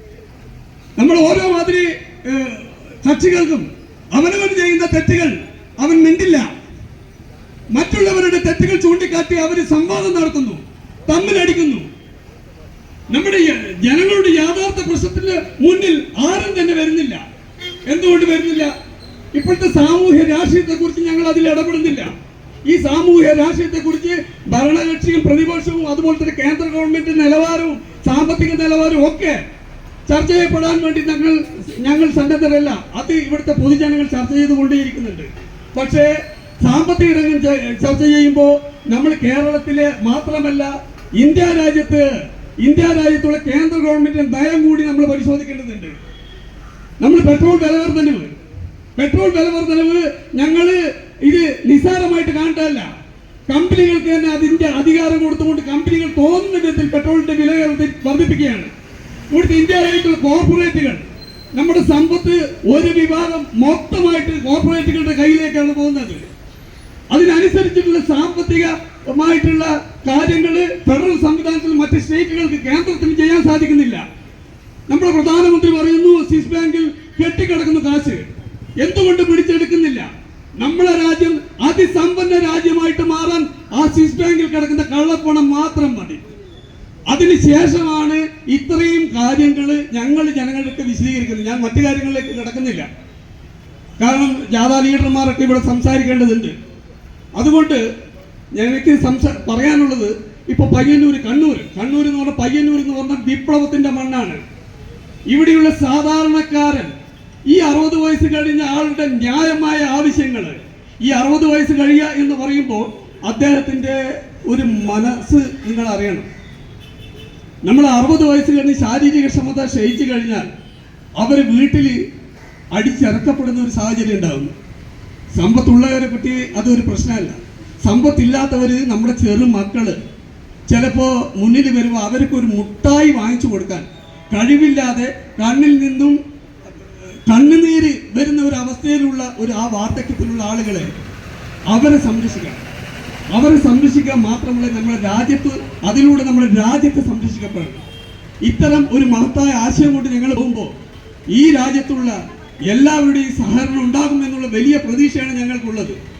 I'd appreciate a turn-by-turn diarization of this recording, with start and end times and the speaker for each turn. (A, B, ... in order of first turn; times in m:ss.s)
0:01.0-0:06.5 A
0:07.7-0:11.9 A
0:13.1-0:17.2 A
0:17.9-0:18.7 A
0:19.4-0:22.1 A
0:22.7-0:29.4 A
0:30.1-0:36.1 A
0:36.6-0:46.0 A
0:47.0-0:48.4 A
0:49.0-0:52.9 A
0:53.5-0:58.7 A
0:59.3-1:06.2 A
1:07.1-1:14.0 A
1:14.9-1:18.3 A
1:18.8-1:20.1 A
1:20.6-1:26.2 A
1:27.1-1:32.9 A
1:34.0-1:36.6 A
1:37.4-1:37.8 A
1:38.6-1:44.4 A
1:45.3-1:46.9 A
1:47.5-1:56.3 A
1:57.6-2:00.5 A
2:01.2-2:02.0 A
2:02.7-2:04.5 A
2:05.4-2:10.0 A
2:10.7-2:16.2 A
2:17.3-2:20.9 A
2:21.7-2:22.6 A
2:23.3-2:27.8 A
2:28.4-2:30.7 A
2:31.3-2:32.2 A
2:32.7-2:36.0 A